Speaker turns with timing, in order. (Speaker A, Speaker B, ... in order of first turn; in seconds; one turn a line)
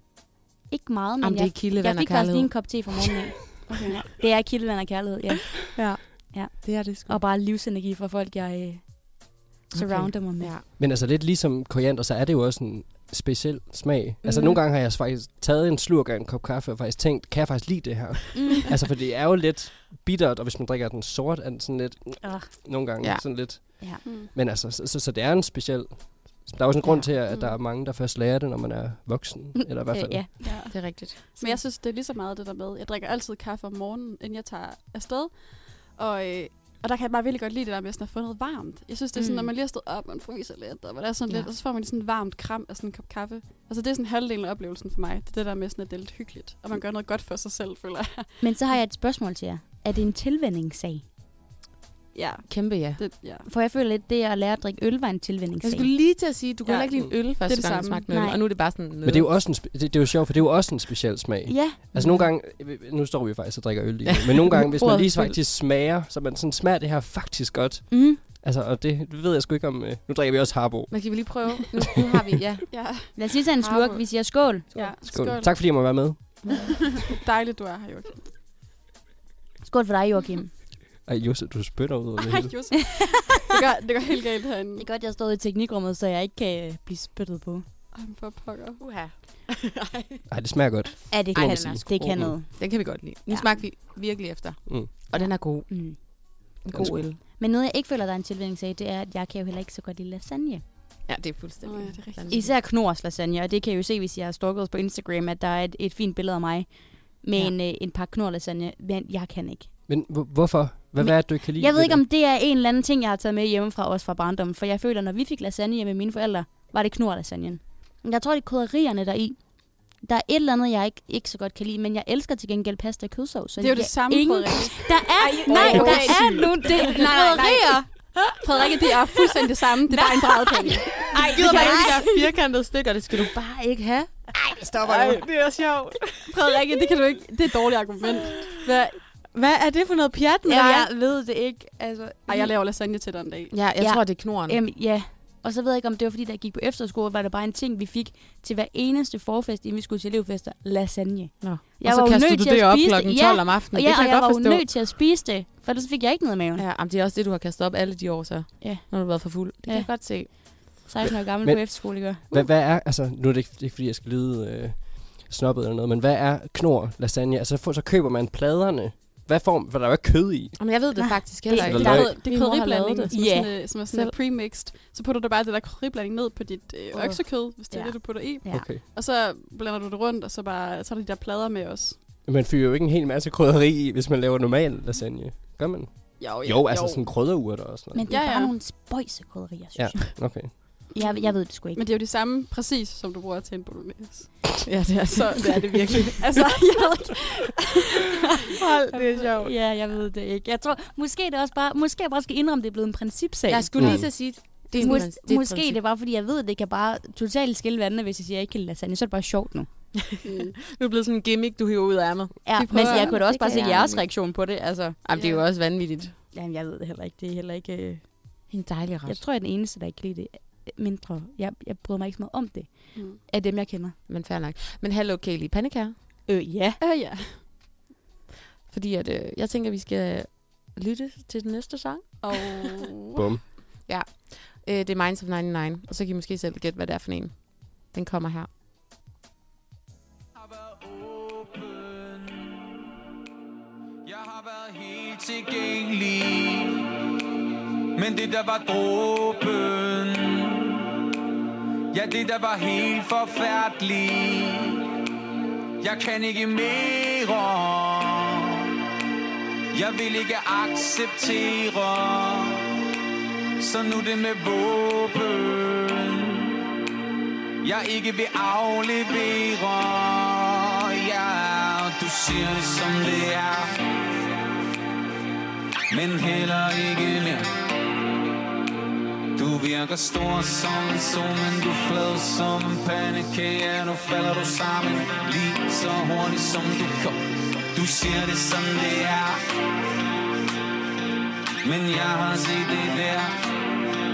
Speaker A: 0.7-10.5
Speaker B: 1.2-2.8
Speaker C: 3.7-4.0
Speaker B: 5.7-7.2
Speaker B: 9.7-10.7
Speaker D: 10.7-30.4
Speaker B: 14.2-14.6
Speaker A: 18.3-18.6
Speaker A: 22.2-22.5
Speaker C: 24.0-24.3
Speaker C: 27.3-27.6
Speaker A: 29.6-30.9
Speaker C: 30.4-48.3
Speaker B: 30.7-31.6
Speaker A: 39.1-39.5
Speaker A: 48.4-51.0
Speaker C: 52.1-53.5
Speaker B: 52.5-53.0
Speaker A: 53.4-55.9
Speaker B: 55.6-59.3
Speaker C: 56.6-58.0
Speaker A: 58.1-58.4
Speaker D: 59.0-71.3
Speaker A: 61.5-61.8
Speaker B: 61.9-62.3
Speaker B: 64.3-65.4
Speaker A: 67.9-68.2
Speaker B: 70.9-74.0
Speaker C: 72.7-73.1
Speaker A: 73.1-74.7
Speaker C: 74.7-78.3
Speaker D: 75.0-76.5
Speaker B: 76.5-76.7
Speaker A: 79.7-80.5
Speaker D: 81.0-82.7
Speaker C: 82.2-84.8
Speaker A: 84.8-87.6
Speaker C: 87.9-88.8
Speaker B: 88.8-90.2
Speaker D: 90.3-92.4
Speaker A: 91.1-93.5
Speaker B: 91.3-97.2
Speaker A: 95.1-96.0
Speaker D: 96.7-97.0
Speaker A: 97.3-100.6
Speaker B: 101.1-102.5
Speaker C: 101.6-102.3
Speaker A: 102.3-109.7
Speaker D: 109.9-112.0
Speaker A: 111.0-127.8
Speaker C: 123.6-127.8
Speaker B: 125.4-128.3
Speaker C: 128.4-132.0
Speaker A: 129.9-132.0
Speaker B: 131.1-136.6
Speaker C: 134.8-135.2
Speaker C: 136.3-138.8
Speaker B: 138.6-140.9
Speaker A: 140.4-142.5
Speaker C: 142.3-143.5
Speaker B: 143.5-144.6
Speaker A: 143.8-156.6
Speaker B: 151.4-154.7
Speaker B: 156.5-160.3
Speaker A: 158.6-162.2
Speaker D: 161.4-170.6
Speaker B: 170.6-174.1
Speaker A: 171.0-172.4
Speaker D: 171.6-172.2
Speaker C: 171.7-182.0
Speaker A: 173.1-173.6
Speaker A: 176.9-178.7
Speaker D: 178.5-178.8
Speaker D: 182.2-188.1
Speaker C: 186.2-187.1
Speaker A: 187.9-191.8
Speaker C: 188.1-188.5
Speaker D: 189.7-190.7
Speaker C: 190.9-194.6
Speaker B: 194.7-196.5
Speaker C: 195.1-197.6
Speaker B: 198.6-199.5
Speaker A: 199.3-209.7
Speaker B: 203.5-205.8
Speaker D: 203.8-204.1
Speaker B: 210.0-214.1
Speaker C: 210.2-210.5
Speaker A: 212.4-215.0
Speaker C: 212.6-213.2
Speaker B: 215.0-216.1
Speaker A: 216.3-218.5
Speaker B: 218.5-219.2
Speaker A: 219.0-223.9
Speaker B: 224.1-225.9
Speaker A: 226.3-226.8
Speaker C: 226.8-227.4
Speaker B: 228.7-232.7
Speaker C: 232.2-233.2
Speaker D: 233.2-233.4
Speaker B: 233.8-238.5
Speaker E: 240.3-242.7
Speaker E: 244.0-247.1
Speaker E: 247.9-250.9
Speaker E: 251.9-254.9
Speaker E: 255.8-258.7
Speaker E: 259.7-262.7
Speaker E: 263.6-266.5
Speaker E: 267.6-273.7
Speaker E: 275.9-277.5
Speaker E: 279.4-289.4
Speaker E: 291.6-293.4